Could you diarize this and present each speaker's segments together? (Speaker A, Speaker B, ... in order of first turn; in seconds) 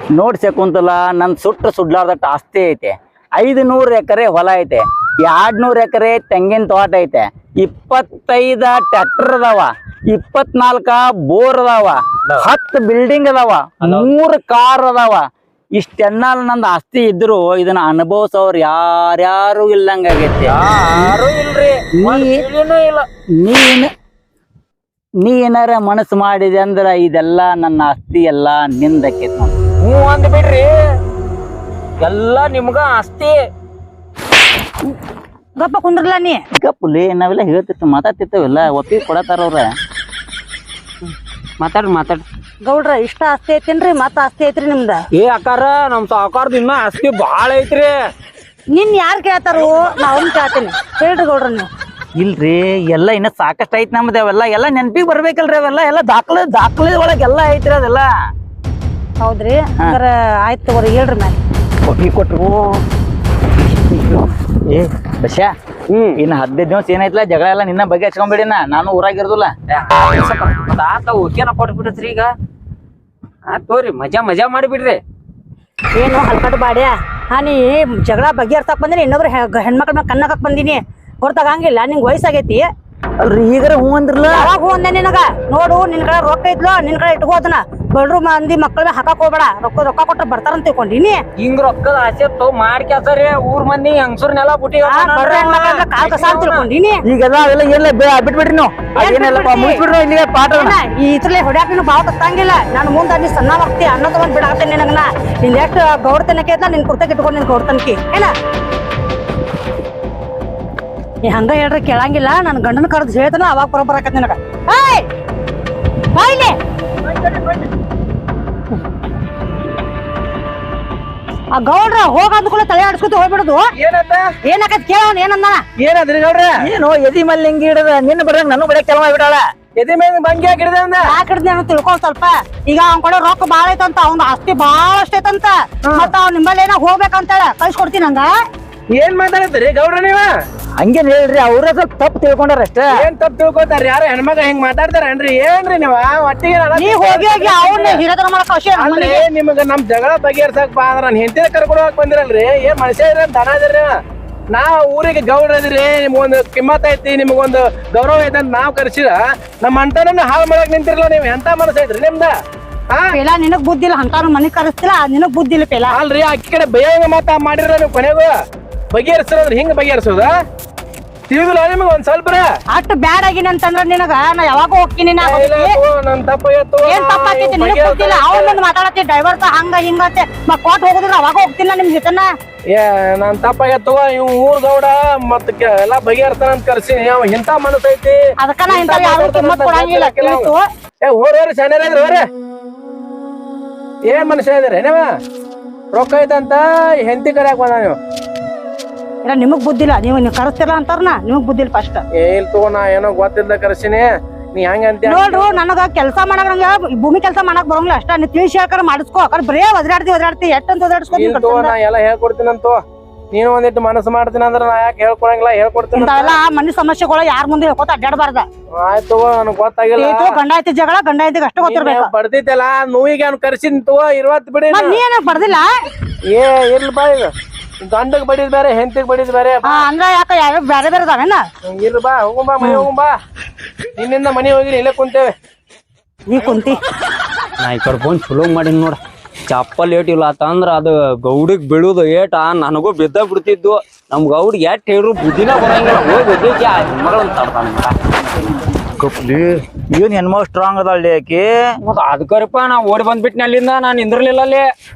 Speaker A: 0.1-21.2, 22.0-22.4, 23.4-23.9, 25.2-29.6, 36.5-39.7, 52.2-58.1, 61.8-62.8, 64.5-65.5, 66.2-69.5, 83.2-84.5, 97.1-100.8, 126.6-129.4, 140.8-143.1, 248.8-251.8
Speaker B: 13.8-14.1, 20.5-23.1, 29.8-30.8, 32.0-33.4, 41.0-42.2, 45.1-48.0, 65.9-66.2, 69.7-72.3, 73.5-75.0, 91.4-96.7, 237.6-248.0, 251.8-254.7
Speaker C: 35.6-36.4, 42.6-45.1, 48.7-51.7, 59.2-61.4, 76.0-82.7, 84.3-91.2, 94.9-97.0, 99.0-99.8, 100.5-108.3, 111.2-115.1, 116.2-116.6, 121.6-123.6, 124.5-125.6, 131.0-138.3, 146.8-149.2, 163.1-166.0, 172.7-175.8, 176.9-182.3, 188.4-190.6, 199.2-202.0, 205.1-211.7, 215.9-218.5, 220.0-222.1, 224.7-225.7, 229.7-231.4, 232.6-232.9, 236.3-236.8
Speaker D: 117.0-117.7, 123.8-124.3, 125.8-126.6, 129.8-131.1, 135.9-136.1, 138.9-140.3, 142.9-148.0, 148.8-154.0, 154.5-162.3, 165.9-168.3, 168.9-170.3, 171.3-172.5, 175.2-178.6, 182.7-190.5, 191.0-192.3, 194.1-195.1, 195.9-198.0, 202.2-205.6, 211.1-216.4, 218.7-220.4, 221.6-225.0, 226.3-229.9, 231.7-233.1, 234.0-235.3